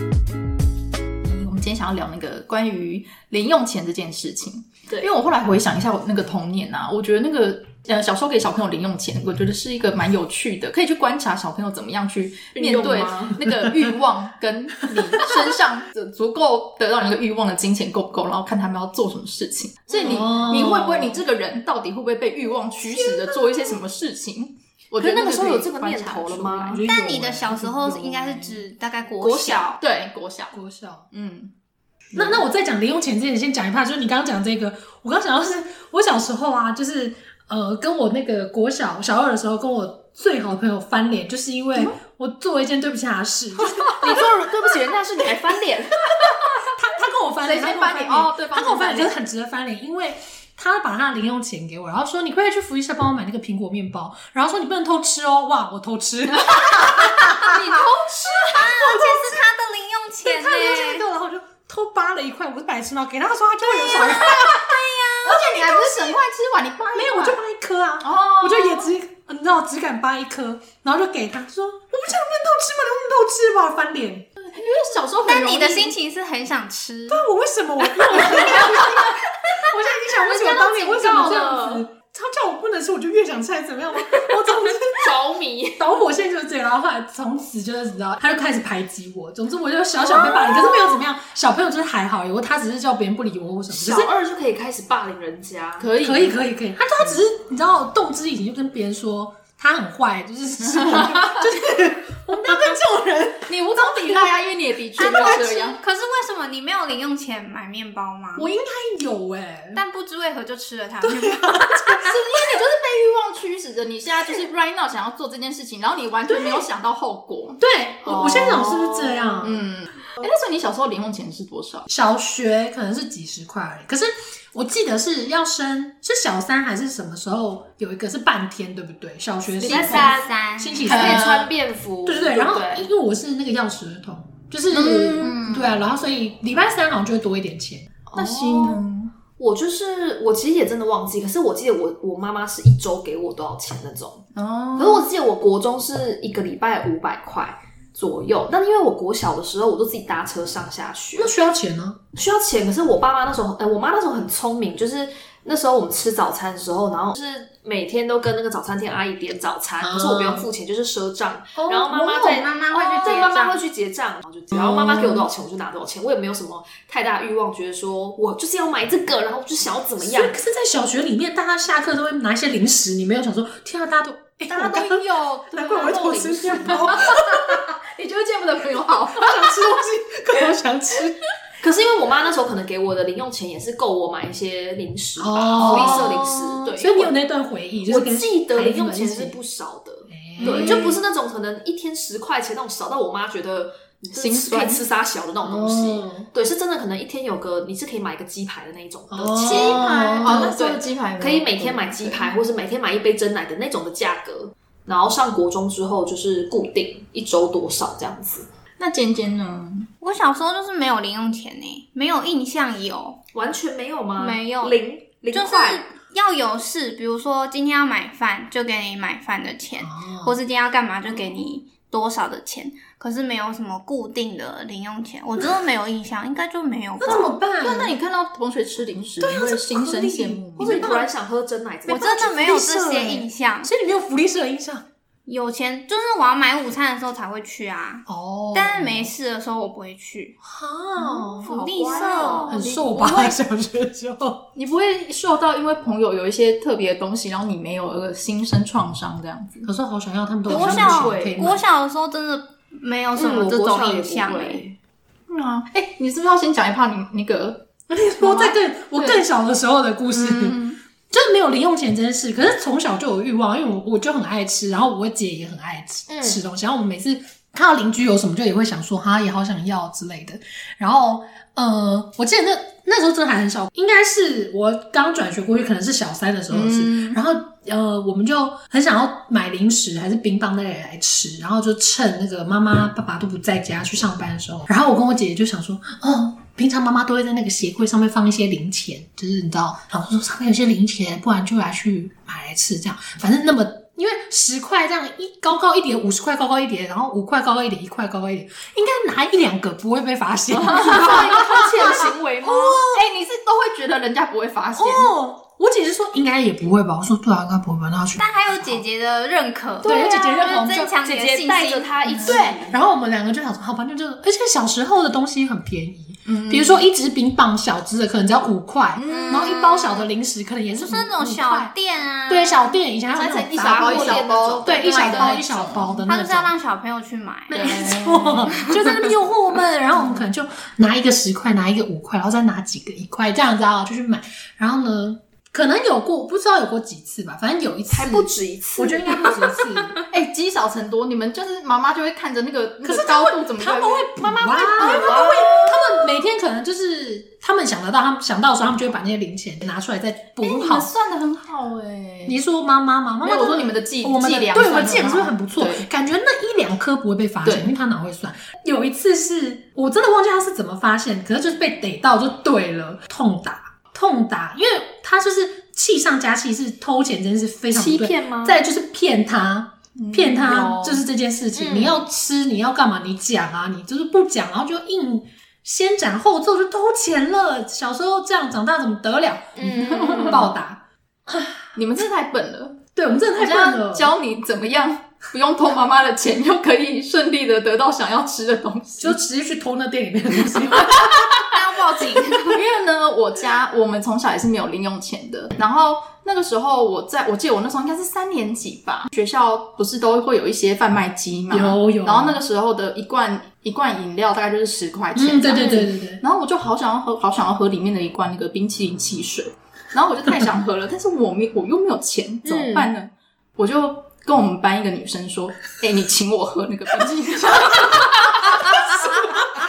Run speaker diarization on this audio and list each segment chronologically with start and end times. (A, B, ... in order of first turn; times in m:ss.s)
0:01.2-0:26.8 A
0:12.6-0:13.4 B
0:13.6-0:13.9 C
0:14.9-0:15.3 C
0:19.9-0:20.3 B
0:20.0-0:21.2 C
0:22.9-0:23.8 C
0:25.0-0:26.8 B
0:26.7-0:28.6 C
0:26.8-0:29.8 D
0:29.2-0:29.8 B
0:29.8-0:30.6 A
0:30.5-0:31.1 C
0:31.1-0:31.5 A
0:32.1-0:32.4 A
0:32.2-0:44.3 C
0:43.8-0:46.1 B
0:46.1-0:46.7 A
0:46.3-0:57.6 C
0:47.4-0:49.1 A
0:56.4-0:58.7 A
0:57.6-0:57.9 B
0:58.4-1:01.0 D
0:58.5-0:59.4 C
1:00.2-1:06.2 C
1:03.6-1:05.4 D
1:05.2-1:07.4 A
1:06.9-1:14.3 C
1:08.0-1:08.9 A
1:14.4-1:16.0 A
1:15.3-1:17.2 D
1:17.1-1:25.1 C
1:18.1-1:19.1 A
1:18.4-1:18.8 D
1:20.0-1:21.4 D
1:20.9-1:21.8 B
1:24.9-1:25.9 B
1:25.8-1:34.1 C
1:33.7-1:35.9 B
1:35.8-1:36.4 A
1:36.0-1:44.2 C
1:40.7-1:41.5 A
1:43.5-1:45.8 A
1:45.0-1:48.5 D
1:48.4-1:49.8 C
1:49.8-1:52.0 D
1:51.0-1:52.4 C
1:52.0-2:01.9 A
1:57.6-1:59.6 C
2:01.9-2:11.5 C
2:09.6-2:10.3 B
2:09.6-2:11.0 D
2:10.8-2:12.9 B
2:10.9-2:11.5 A
2:12.0-2:17.9 C
2:14.7-2:15.3 B
2:15.2-2:15.8 A
2:18.1-2:18.8 B
2:18.1-2:19.1 A
2:19.4-2:31.3 B
2:24.4-2:25.1 A
2:31.2-2:32.0 C
2:32.2-2:50.4 B
2:39.8-2:40.5 C
2:41.6-2:42.4 C
2:42.0-2:43.6 D
2:44.5-2:45.3 C
2:50.0-2:57.7 C
2:54.5-2:59.8 A
2:55.7-2:57.1 B
2:59.2-3:01.2 C
3:01.6-3:06.9 B
3:05.2-3:09.4 C
3:05.6-3:07.1 A
3:07.9-3:28.5 B
3:10.1-3:11.0 C
3:10.4-3:10.9 A
3:14.1-3:14.9 A
3:15.4-3:16.3 C
3:19.1-3:20.6 C
3:19.4-3:22.3 A
3:28.8-3:29.9 A
3:30.0-3:33.2 D
3:33.3-3:35.9 B
3:34.2-3:34.8 D
3:35.3-3:47.4 D
3:39.8-3:40.4 C
3:47.0-3:47.9 C
3:47.6-3:51.0 A
3:49.2-3:51.1 C
3:50.6-3:52.3 B
3:51.9-3:53.7 D
3:51.9-3:54.9 C
3:55.3-4:00.4 D
3:58.1-3:59.1 C
4:00.4-4:04.5 C
4:01.2-4:03.4 A
4:01.4-4:02.5 D
4:01.4-4:02.5 B
4:04.6-4:09.7 A
4:09.6-4:11.6 C
4:10.5-4:11.4 B
4:10.5-4:14.6 D
4:13.2-4:14.8 B
4:15.3-4:19.2 A
4:17.9-5:03.1 C
4:20.1-4:20.8 A
4:26.1-4:26.4 B
4:36.5-4:37.2 A
5:00.5-5:02.9 B
5:00.7-5:05.1 A
5:04.8-5:08.8 C
5:08.2-5:12.3 D
5:09.8-5:10.9 C
5:09.8-5:12.8 B
5:12.1-5:12.6 A
5:12.3-5:21.7 C
5:16.3-5:16.8 A
5:19.0-5:19.6 A
5:19.1-5:20.1 D
5:20.8-5:22.8 D
5:22.3-5:26.5 C
5:23.1-5:26.0 A
5:23.6-5:25.4 B
5:26.1-5:28.0 D
5:27.5-5:40.0 C
5:27.5-5:28.8 A
5:37.9-5:39.5 B
5:40.1-5:45.8 A
5:42.8-5:50.9 C
5:44.8-5:45.3 D
5:44.9-5:45.3 B
5:50.4-5:52.4 A
5:52.3-6:21.7 C
5:53.2-5:55.9 A
5:57.4-5:57.7 A
6:07.7-6:08.6 B
6:10.0-6:11.0 A
6:10.4-6:11.0 B
6:11.6-6:12.0 B
6:19.6-6:20.5 B
6:19.7-6:20.5 A
6:21.8-6:29.2 A
6:23.0-6:24.1 C
6:29.0-6:31.4 C
6:30.6-6:31.5 A
6:31.5-6:32.6 D
6:32.4-6:59.4 A
6:41.5-6:42.4 C
6:45.1-6:46.2 C
6:45.5-6:45.9 B
6:52.4-6:52.9 B